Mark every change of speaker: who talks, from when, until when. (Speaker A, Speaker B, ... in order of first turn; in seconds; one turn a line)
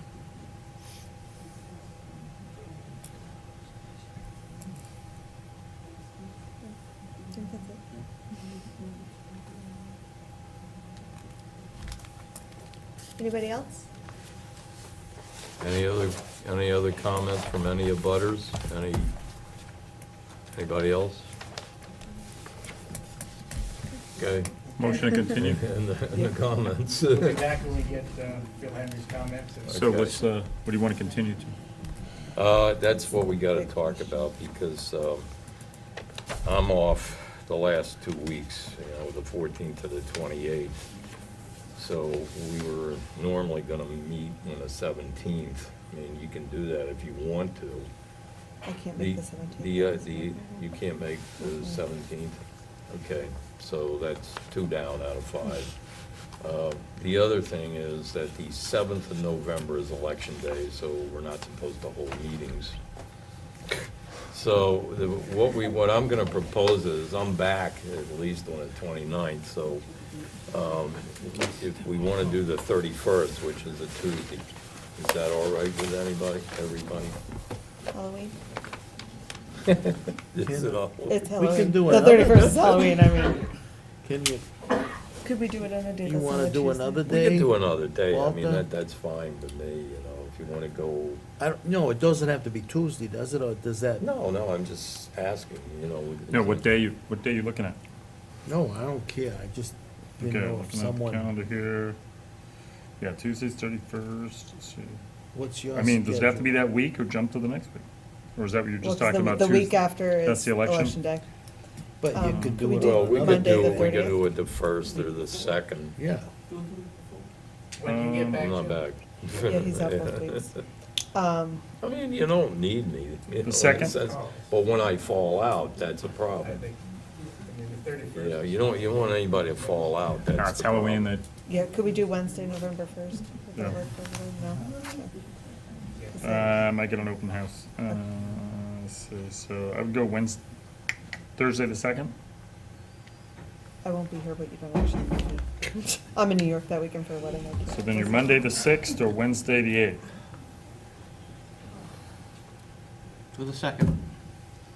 Speaker A: 13.2-13.8
Speaker B: 15.6-19.1
Speaker B: 20.5-21.3
Speaker B: 24.1-27.4
Speaker C: 24.7-25.0
Speaker D: 24.8-25.6
Speaker C: 27.1-30.0
Speaker B: 29.7-30.2
Speaker D: 29.7-31.6
Speaker B: 32.3-35.3
Speaker B: 36.4-40.8
Speaker B: 41.7-47.9
Speaker A: 48.6-50.4
Speaker B: 48.9-55.8
Speaker B: 56.4-62.8
Speaker B: 64.3-69.9
Speaker B: 70.5-77.2
Speaker A: 77.9-78.3
Speaker B: 80.2-82.6
Speaker E: 80.4-82.8
Speaker A: 81.1-83.4
Speaker E: 84.0-84.5
Speaker A: 85.2-87.0
Speaker E: 86.0-88.7
Speaker B: 87.1-91.2
Speaker E: 91.4-94.0
Speaker B: 94.0-96.7
Speaker D: 96.3-97.8
Speaker E: 98.5-101.3
Speaker D: 100.2-102.0
Speaker D: 103.0-105.0
Speaker E: 105.3-106.5
Speaker D: 105.7-107.8
Speaker D: 108.3-111.0
Speaker A: 108.8-111.2
Speaker E: 112.0-114.1
Speaker D: 112.1-112.7
Speaker A: 112.3-114.2
Speaker B: 112.4-116.0
Speaker E: 116.0-116.3
Speaker C: 117.8-118.8
Speaker D: 117.8-118.4
Speaker B: 118.2-120.6
Speaker A: 119.5-120.4
Speaker A: 121.1-121.6
Speaker B: 121.8-126.7
Speaker D: 123.4-124.0
Speaker C: 123.7-124.5
Speaker C: 126.4-129.9
Speaker B: 128.1-131.1
Speaker D: 130.3-131.3
Speaker A: 131.5-135.1
Speaker D: 133.5-133.8
Speaker C: 135.9-136.6
Speaker D: 136.2-140.4
Speaker D: 141.3-142.1
Speaker A: 143.8-148.2
Speaker D: 147.6-150.0